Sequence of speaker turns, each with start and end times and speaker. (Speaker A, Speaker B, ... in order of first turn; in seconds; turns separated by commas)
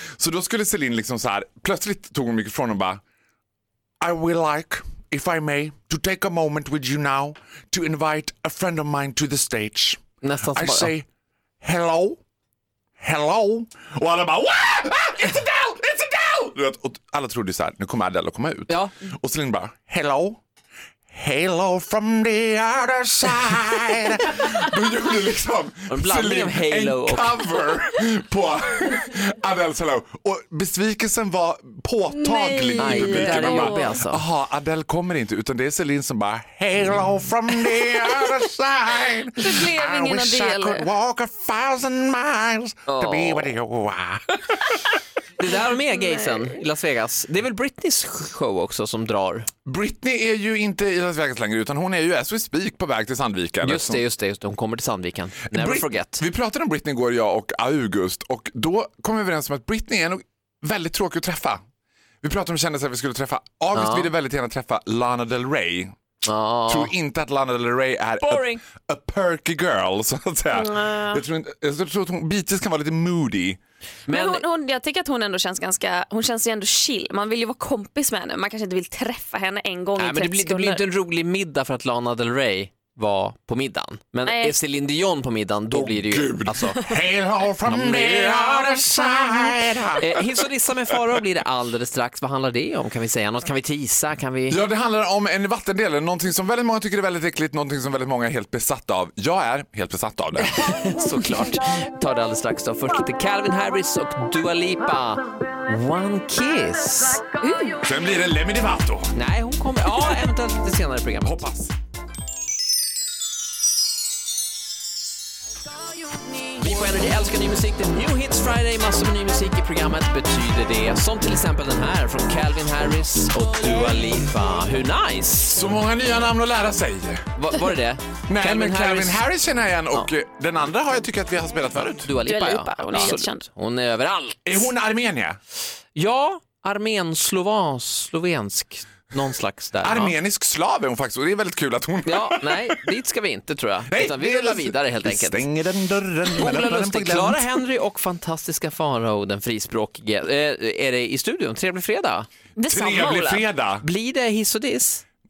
Speaker A: 0.2-3.0, Speaker A: 4.0-11.1, Speaker B: 10.2-10.9, Speaker A: 11.6-12.2, Speaker A: 13.0-20.4, Speaker A: 21.1-44.8, Speaker B: 25.9-27.7, Speaker C: 32.2-33.9, Speaker B: 32.8-34.2, Speaker C: 39.4-40.9, Speaker B: 42.9-43.5, Speaker B: 45.4-49.5, Speaker A: 49.7-54.0, Speaker B: 53.6-56.2, Speaker A: 55.5-61.6, Speaker A: 62.2-65.9, Speaker B: 63.8-64.1, Speaker B: 66.2-66.9, Speaker A: 66.7-73.6, Speaker B: 68.2-68.6, Speaker C: 70.5-71.2, Speaker B: 74.1-74.4, Speaker C: 74.1-80.8, Speaker B: 80.0-86.9, Speaker C: 84.2-84.5, Speaker A: 85.7-90.3, Speaker B: 87.6-94.6, Speaker A: 90.9-91.2, Speaker A: 94.5-100.5, Speaker B: 100.4-107.2, Speaker C: 107.4-107.8, Speaker A: 107.8-109.1, Speaker B: 109.2-111.4, Speaker A: 111.2-111.8, Speaker B: 116.4-125.7, Speaker A: 125.5-127.2, Speaker B: 127.4-129.2, Speaker A: 128.3-132.1, Speaker B: 131.7-134.7, Speaker C: 132.3-133.4, Speaker A: 134.5-135.4, Speaker B: 136.0-140.2, Speaker A: 139.8-142.8, Speaker B: 142.1-145.5, Speaker A: 143.9-147.6, Speaker B: 146.4-152.3, Speaker C: 152.6-153.4, Speaker A: 152.7-153.8, Speaker B: 153.8-155.0